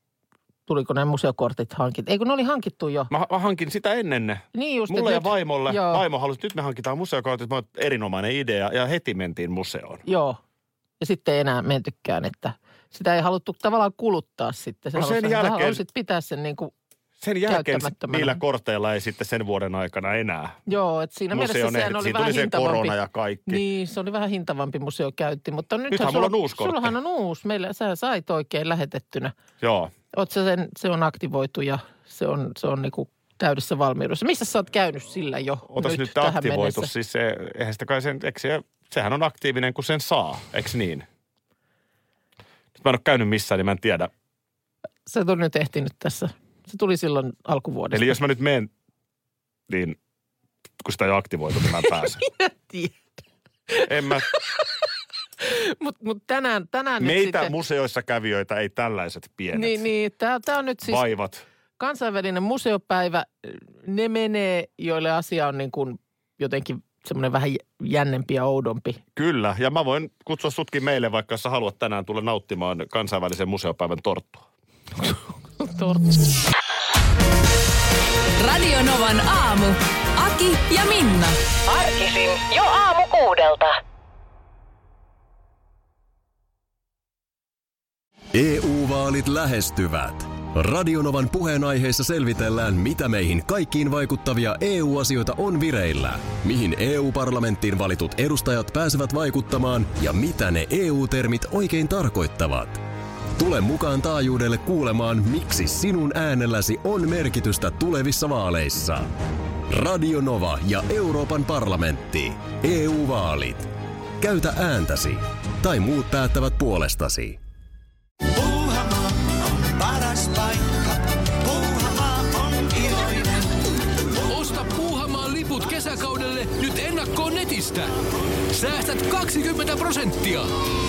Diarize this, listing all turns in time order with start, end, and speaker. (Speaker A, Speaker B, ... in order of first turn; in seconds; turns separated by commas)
Speaker A: 0.7-3.1, Speaker B: 3.1-10.0, Speaker A: 4.5-6.0, Speaker A: 10.1-10.4, Speaker A: 11.0-16.7, Speaker B: 14.9-15.8, Speaker B: 17.2-20.6, Speaker A: 17.5-18.4, Speaker A: 20.7-23.0, Speaker B: 21.3-23.6, Speaker A: 23.5-29.3, Speaker B: 25.9-26.9, Speaker B: 29.6-29.9, Speaker A: 30.1-36.9, Speaker B: 35.7-41.1, Speaker B: 42.8-44.1, Speaker A: 45.1-48.2, Speaker B: 47.9-48.7, Speaker B: 49.7-50.0, Speaker B: 50.8-52.2, Speaker A: 52.4-52.9, Speaker B: 53.8-54.3, Speaker A: 55.4-57.5, Speaker B: 57.0-59.8, Speaker A: 59.5-61.0, Speaker B: 60.9-61.4, Speaker A: 61.8-69.0, Speaker B: 69.2-74.5, Speaker A: 75.6-76.1, Speaker C: 78.4-81.4, Speaker D: 81.7-83.7, Speaker E: 88.3-102.8, Speaker E: 103.4-109.1, Speaker E: 109.7-117.4, Speaker F: 118.3-123.6, Speaker G: 124.3-128.0, Speaker G: 128.5-130.5